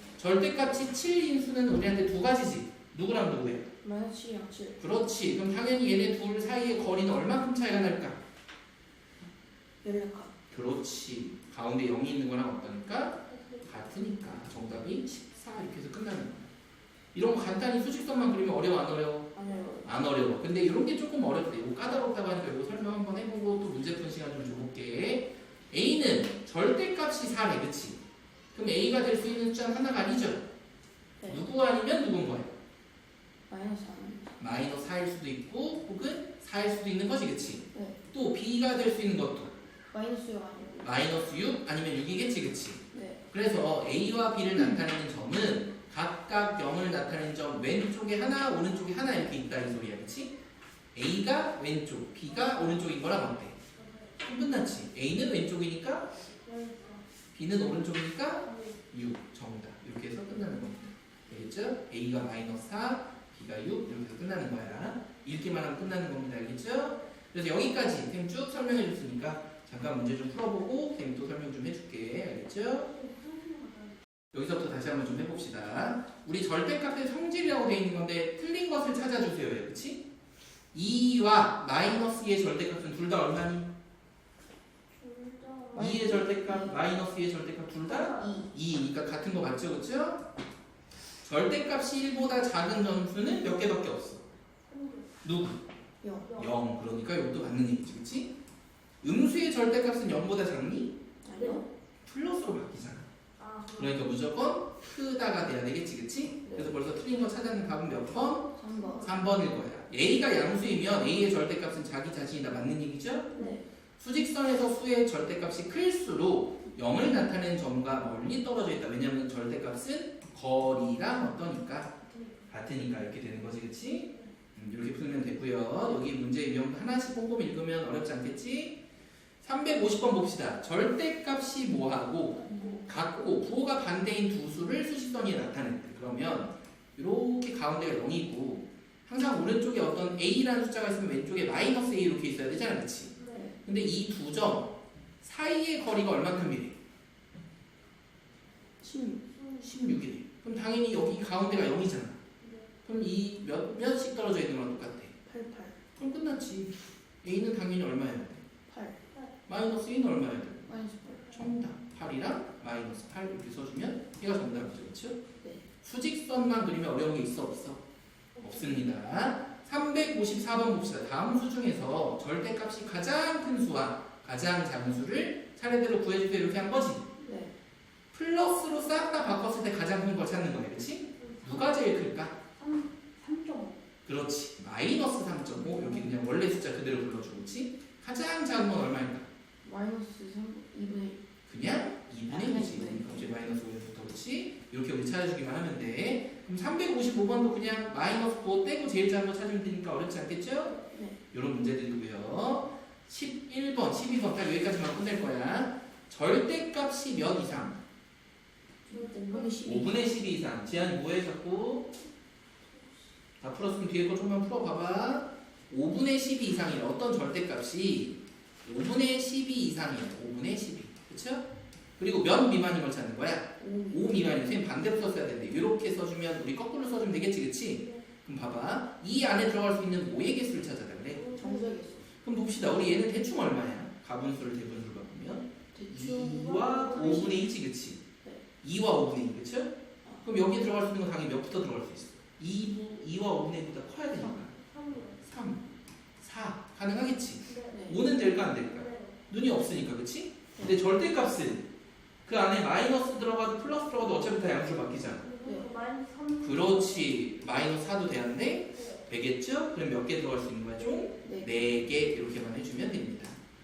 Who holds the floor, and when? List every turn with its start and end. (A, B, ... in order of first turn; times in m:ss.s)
0:00.2-0:03.7 A
0:03.8-0:04.8 B
0:04.8-0:08.2 A
0:09.8-0:10.3 B
0:10.5-0:16.5 A
0:13.3-0:13.7 C
0:17.1-0:19.3 A
0:19.3-0:19.9 B
0:19.4-0:19.7 C
0:19.8-0:28.0 A
0:28.5-0:30.4 A
0:31.2-0:31.4 B
0:31.3-0:32.5 A
0:33.5-0:34.3 B
0:34.4-0:39.5 A
0:37.7-0:38.0 B
0:39.9-0:41.1 B
0:40.8-0:50.3 A
0:42.9-0:43.2 B
0:50.9-0:53.6 A
0:53.7-0:54.3 C
0:54.2-0:56.1 A
0:56.1-0:57.0 C
0:57.3-1:12.9 A
0:58.4-0:58.8 C
1:12.9-1:14.0 C
1:14.3-1:20.0 A
1:20.7-1:23.7 A
1:24.9-1:26.3 C
1:25.7-1:26.8 B
1:25.7-1:30.2 A
1:27.8-1:28.4 C
1:28.1-1:28.5 B
1:31.2-1:34.2 A
1:34.6-1:35.1 C
1:35.2-1:35.6 A
1:36.0-1:36.3 B
1:36.2-1:36.9 C
1:36.4-1:38.3 A
1:39.0-1:40.9 A
1:41.2-1:41.7 B
1:41.3-1:41.7 C
1:42.0-1:43.1 A
1:43.4-1:44.0 C
1:43.7-1:53.3 A
1:46.4-1:46.7 B
1:48.5-1:49.2 B
1:48.7-1:49.2 C
1:53.3-1:53.6 C
1:53.3-1:53.6 B
1:54.0-2:01.9 A
2:02.0-2:02.4 C
2:02.5-2:08.8 A
2:04.0-2:04.3 C
2:09.4-2:23.1 A
2:12.3-2:12.9 C
2:12.5-2:12.8 B
2:23.2-2:23.5 C
2:23.3-2:23.6 B
2:23.6-2:26.8 A
2:28.8-2:29.2 B
2:29.3-2:29.7 C
2:29.6-2:32.2 A
2:32.4-2:32.7 C
2:32.8-2:35.1 A
2:35.2-2:35.8 B
2:36.0-2:38.4 A
2:38.7-2:39.0 B
2:39.5-2:40.7 A
2:40.6-2:41.4 B
2:41.1-2:41.3 C
2:41.3-2:45.2 A
2:45.8-2:47.8 A
2:48.3-2:48.9 C
2:48.4-2:57.1 A
2:57.2-2:57.5 B
2:58.1-3:02.4 A
3:01.2-3:02.0 C
3:02.5-3:03.8 C
3:04.0-3:09.3 A
3:05.6-3:06.2 B
3:09.6-3:11.2 B
3:11.5-3:20.8 A
3:12.3-3:13.5 B
3:20.9-3:21.2 B
3:21.3-3:27.8 A
3:28.8-3:30.4 B
3:28.9-3:29.7 C
3:29.6-3:31.9 A
3:33.4-3:41.4 A
3:42.0-3:51.2 A
3:43.6-3:44.4 B
3:47.8-3:48.1 C
3:51.1-3:51.8 C
3:51.4-3:52.0 B
3:52.1-3:58.0 A
3:55.7-3:57.5 B
3:56.1-3:57.3 C
3:58.6-4:04.5 A
4:04.5-4:05.2 C
4:05.2-4:05.6 A
4:06.2-4:11.7 A
4:07.4-4:09.2 C
4:07.7-4:08.0 B
4:12.2-4:15.2 A
4:15.1-4:17.3 C
4:16.4-4:23.4 A
4:18.7-4:19.1 C
4:20.8-4:21.3 C
4:21.2-4:21.6 B